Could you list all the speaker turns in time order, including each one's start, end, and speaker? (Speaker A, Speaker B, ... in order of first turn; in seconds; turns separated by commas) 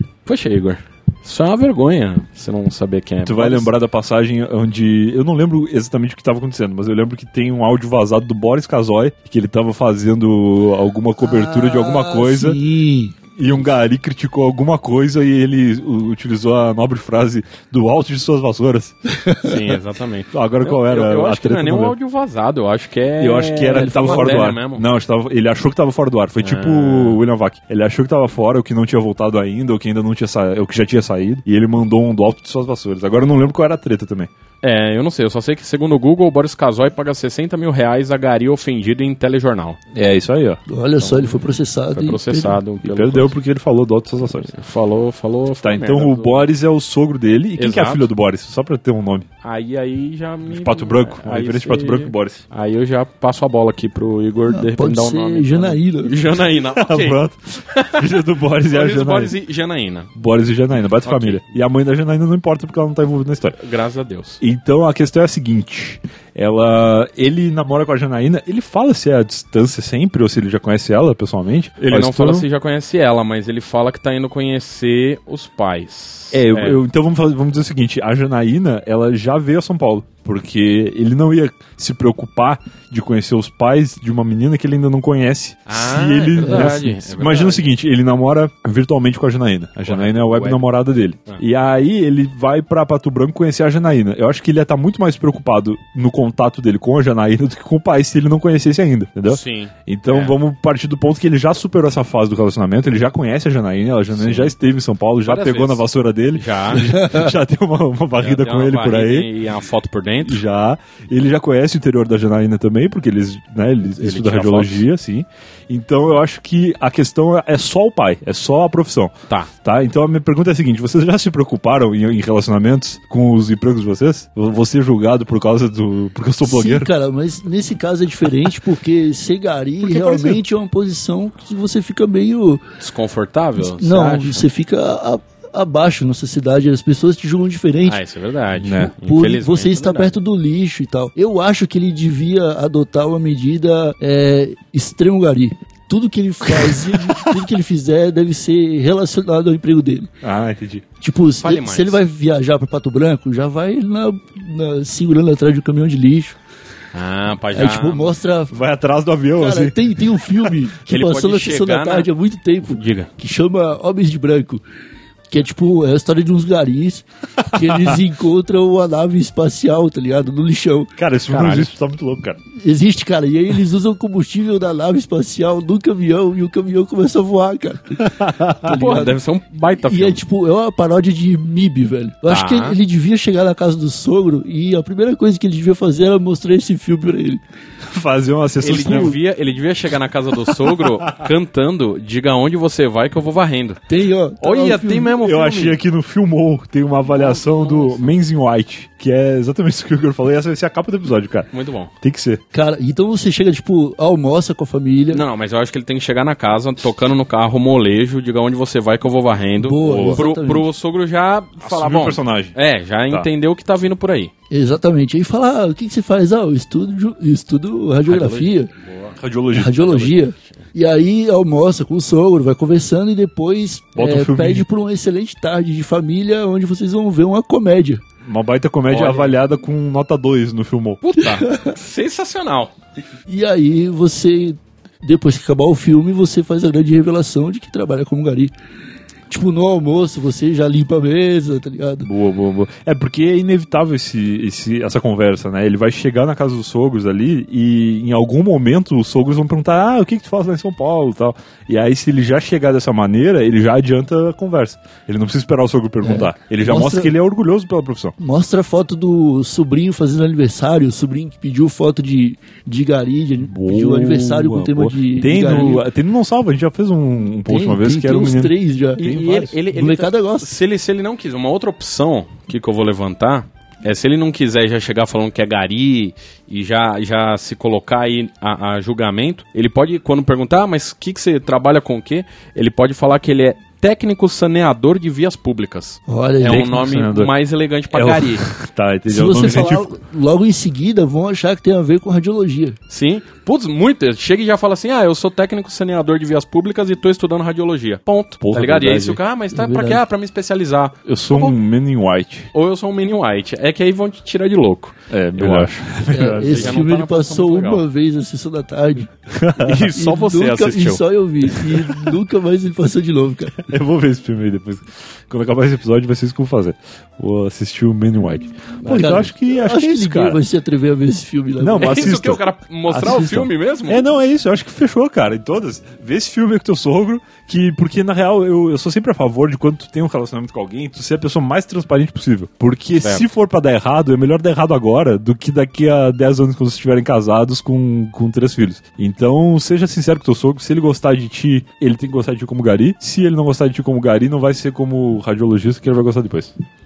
Speaker A: 0.3-3.7, Speaker B: 3.2-12.6, Speaker C: 11.2-13.2, Speaker B: 13.4-18.9, Speaker C: 19.2-19.6, Speaker A: 19.4-24.9, Speaker B: 20.3-22.0, Speaker B: 23.2-34.3, Speaker C: 23.7-24.5, Speaker A: 26.4-27.2, Speaker A: 34.6-39.8, Speaker B: 39.9-40.6, Speaker C: 40.7-42.6, Speaker A: 41.0-43.4, Speaker B: 42.8-44.5, Speaker A: 44.5-46.5, Speaker B: 45.6-49.3, Speaker A: 47.6-48.1, Speaker A: 49.4-58.1, Speaker B: 50.5-52.4, Speaker C: 54.5-56.2, Speaker B: 56.7-59.4, Speaker A: 58.7-60.1, Speaker B: 60.1-63.6, Speaker A: 60.9-61.5, Speaker A: 63.5-64.4, Speaker B: 64.4-72.5, Speaker A: 71.8-76.8, Speaker B: 76.3-109.3, Speaker A: 85.7-87.8, Speaker C: 86.4-86.9, Speaker A: 89.8-90.6, Speaker A: 99.3-100.4, Speaker A: 104.1-104.5, Speaker A: 105.2-107.0, Speaker A: 108.2-110.4, Speaker B: 110.2-126.9, Speaker A: 114.0-114.9, Speaker C: 126.4-132.6, Speaker B: 129.8-130.4, Speaker A: 132.8-134.5, Speaker C: 133.6-138.0, Speaker A: 137.8-140.2, Speaker B: 138.6-138.9, Speaker C: 138.7-150.1, Speaker B: 146.5-147.3, Speaker B: 150.2-150.8, Speaker C: 151.0-156.4, Speaker A: 151.4-152.0, Speaker A: 156.9-158.1, Speaker C: 157.5-158.6, Speaker B: 158.5-160.6, Speaker C: 159.3-164.6, Speaker A: 160.9-162.1, Speaker A: 162.7-163.1, Speaker C: 165.3-170.9, Speaker B: 167.4-168.0, Speaker B: 171.0-172.4, Speaker A: 171.3-171.7, Speaker C: 172.6-179.2, Speaker B: 178.0-179.0, Speaker A: 178.7-180.2, Speaker C: 179.8-187.4, Speaker A: 182.3-182.8, Speaker B: 187.9-189.2, Speaker A: 188.6-193.9, Speaker B: 190.9-191.2, Speaker C: 193.9-195.2, Speaker A: 194.4-195.8, Speaker B: 195.1-201.5, Speaker A: 197.1-198.1, Speaker A: 201.5-201.9, Speaker B: 202.0-202.4, Speaker C: 202.5-205.2, Speaker A: 205.1-214.3, Speaker C: 209.6-210.7, Speaker B: 209.8-210.2, Speaker B: 211.6-212.6, Speaker C: 214.5-218.7, Speaker A: 218.1-219.2, Speaker B: 219.2-220.2, Speaker C: 219.5-228.0, Speaker A: 219.9-220.6, Speaker B: 224.0-224.7, Speaker B: 228.2-231.0, Speaker A: 228.9-229.4, Speaker A: 231.0-232.7, Speaker C: 231.2-231.8, Speaker C: 233.3-238.5, Speaker C: 239.3-242.1, Speaker B: 242.0-258.1, Speaker C: 256.0-257.1, Speaker C: 258.2-265.9, Speaker B: 263.4-269.6, Speaker C: 267.4-269.1, Speaker A: 269.0-288.4, Speaker C: 269.7-270.5, Speaker C: 286.1-286.7, Speaker B: 286.4-287.3, Speaker B: 287.9-289.9, Speaker C: 289.1-292.8, Speaker A: 292.9-301.6, Speaker B: 298.4-299.2, Speaker C: 299.5-300.0, Speaker B: 301.1-302.5, Speaker A: 302.5-307.9, Speaker B: 305.1-306.8, Speaker C: 306.1-309.1, Speaker B: 309.3-309.9, Speaker A: 309.6-311.0, Speaker C: 309.9-313.6, Speaker B: 311.5-312.2, Speaker B: 313.6-320.4, Speaker A: 318.8-319.3, Speaker C: 318.9-322.2, Speaker B: 321.6-346.5, Speaker A: 321.8-324.1, Speaker A: 333.0-333.3